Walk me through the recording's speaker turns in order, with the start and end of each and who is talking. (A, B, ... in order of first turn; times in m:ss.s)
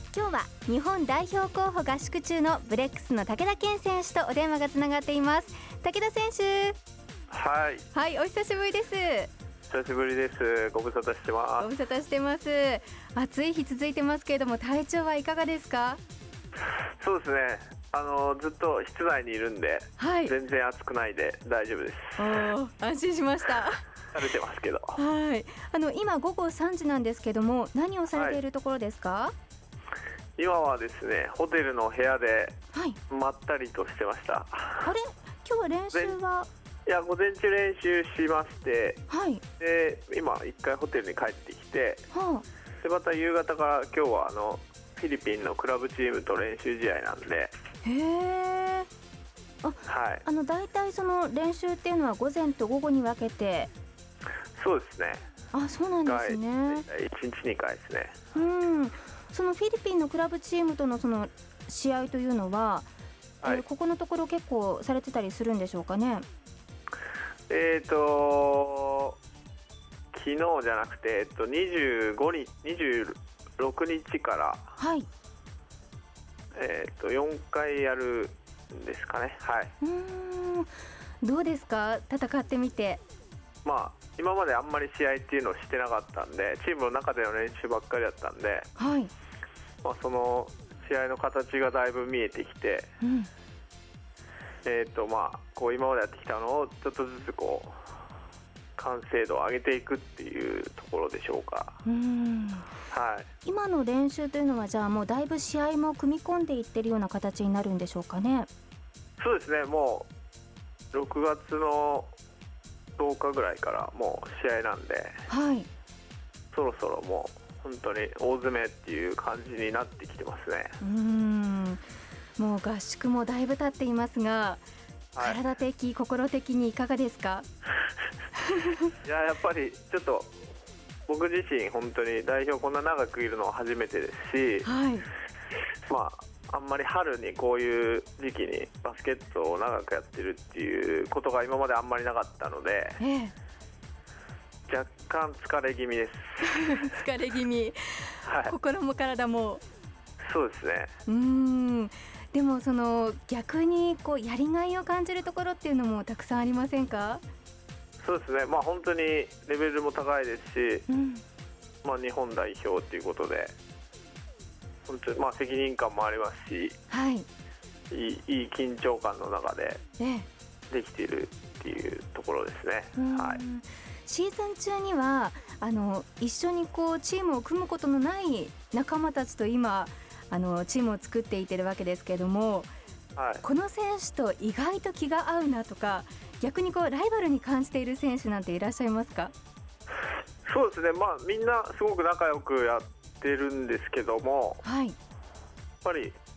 0:00.1-0:06.8 A
0:07.3-0:07.9 B
0:07.9-0:09.3 A
0:09.7-0:11.7 B
0:11.6-0:16.0 A
0:17.0-0:22.4 B
0:20.0-0:20.3 A
0:22.2-0:23.8 A
0:24.1-0:25.0 B
0:25.0-0:29.3 A
0:28.1-0:28.4 B
0:30.4-0:32.6 B
0:32.7-0:33.0 A
0:33.1-0:34.9 B
0:34.8-0:36.5 A
0:36.8-0:39.0 B
0:39.1-0:39.4 A
0:39.6-0:42.0 B
0:42.1-0:42.4 A
0:42.8-0:47.5 B
0:47.8-0:48.9 A
0:49.6-0:53.7 A
0:49.8-0:50.2 B
0:54.6-0:55.2 B
0:55.5-0:56.8 A
0:56.0-0:58.2 B
0:58.3-1:02.9 A
1:03.4-1:06.2 A
1:07.5-1:09.1 B
1:10.1-1:14.7 B
1:14.8-1:15.1 A
1:16.5-1:19.7 B
1:19.8-1:20.7 A
1:21.2-1:23.0 A
1:23.6-1:28.7 B
1:28.8-1:29.1 A
1:29.8-1:32.9 B
1:33.0-1:33.3 A
1:34.6-1:37.7 B
1:38.8-1:41.8 B
1:41.8-1:42.7 A
1:42.9-1:43.3 B
1:43.4-1:48.5 A
1:49.2-1:50.1 B
1:50.9-1:52.1 B
1:53.0-1:55.2 B
1:55.3-1:55.7 A
1:56.5-2:00.7 B
2:00.8-2:01.8 A
2:02.4-2:04.6 A
2:05.2-2:07.4 A
2:08.5-2:08.9 A
2:09.0-2:10.3 B
2:11.1-2:14.7 B
2:14.6-2:15.1 A
2:15.9-2:23.0 B
2:23.0-2:23.3 A
2:24.7-2:26.9 B
2:26.4-2:29.6 A
2:28.2-2:28.5 B
2:30.2-2:30.9 B
2:31.1-2:37.2 A
2:38.0-2:40.9 B
2:40.9-2:41.2 A
2:41.8-2:43.5 B
2:44.9-2:46.8 B
2:46.9-2:47.2 A
2:47.9-2:49.8 B
2:50.0-2:50.2 A
2:50.7-2:53.4 B
2:53.0-3:02.7 A
3:03.2-3:03.4 B
3:03.4-3:09.3 A
3:10.4-3:14.6 B
3:14.6-3:15.0 A
3:15.8-3:16.2 B